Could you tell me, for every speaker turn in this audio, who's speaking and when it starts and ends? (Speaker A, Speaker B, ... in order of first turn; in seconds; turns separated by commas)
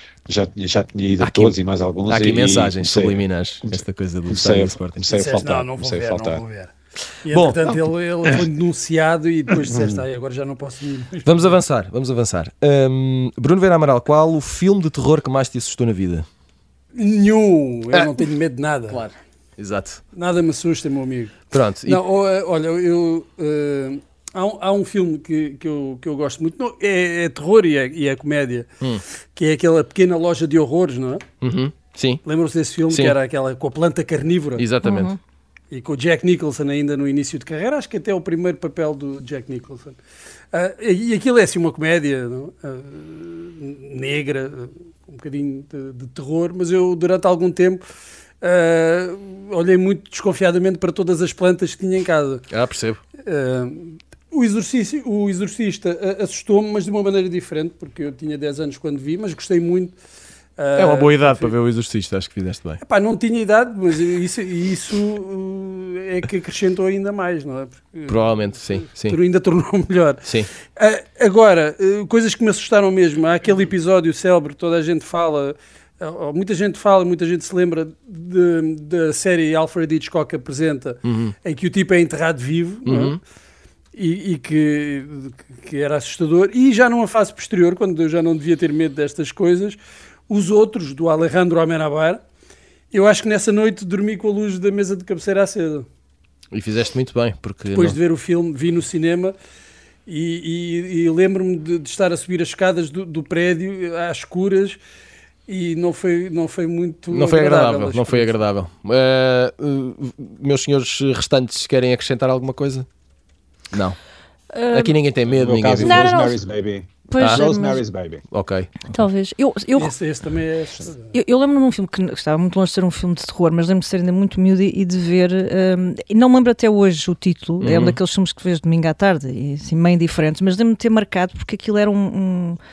Speaker A: 0.3-6.4, Speaker B: 1.2-5.1, Speaker C: 5.1-6.7, Speaker C: 7.2-11.4, Speaker B: 7.3-7.8, Speaker A: 9.5-10.0, Speaker B: 11.2-16.2, Speaker C: 16.9-19.0, Speaker B: 17.9-18.2, Speaker B: 18.9-20.0, Speaker C: 20.1-28.7, Speaker B: 21.5-22.0, Speaker C: 29.3-31.2, Speaker B: 31.4-32.2, Speaker C: 32.2-34.7, Speaker B: 32.9-33.2, Speaker B: 34.6-35.1, Speaker D: 34.8-35.2, Speaker C: 35.7-40.0, Speaker C: 40.5-47.8, Speaker C: 48.4-52.5, Speaker B: 52.5-53.0, Speaker C: 53.2-59.9, Speaker C: 60.6-61.5, Speaker B: 60.7-62.8, Speaker C: 62.8-68.2, Speaker B: 68.1-69.2, Speaker C: 69.0-70.2, Speaker C: 70.8-83.2, Speaker B: 81.0-81.3, Speaker B: 82.8-83.2, Speaker C: 83.9-89.8, Speaker C: 90.3-92.2, Speaker C: 92.9-95.8, Speaker B: 96.5-98.0, Speaker C: 97.7-99.3, Speaker C: 100.0-104.8, Speaker C: 105.5-108.3, Speaker B: 107.1-112.9, Speaker B: 113.7-114.0, Speaker D: 114.5-115.0, Speaker B: 114.7-116.1, Speaker A: 115.3-118.2, Speaker D: 115.8-116.4, Speaker D: 117.1-117.8, Speaker B: 117.2-117.5, Speaker B: 118.3-118.9, Speaker D: 118.9-119.9, Speaker C: 119.8-121.1, Speaker D: 121.1-132.6, Speaker B: 127.6-128.0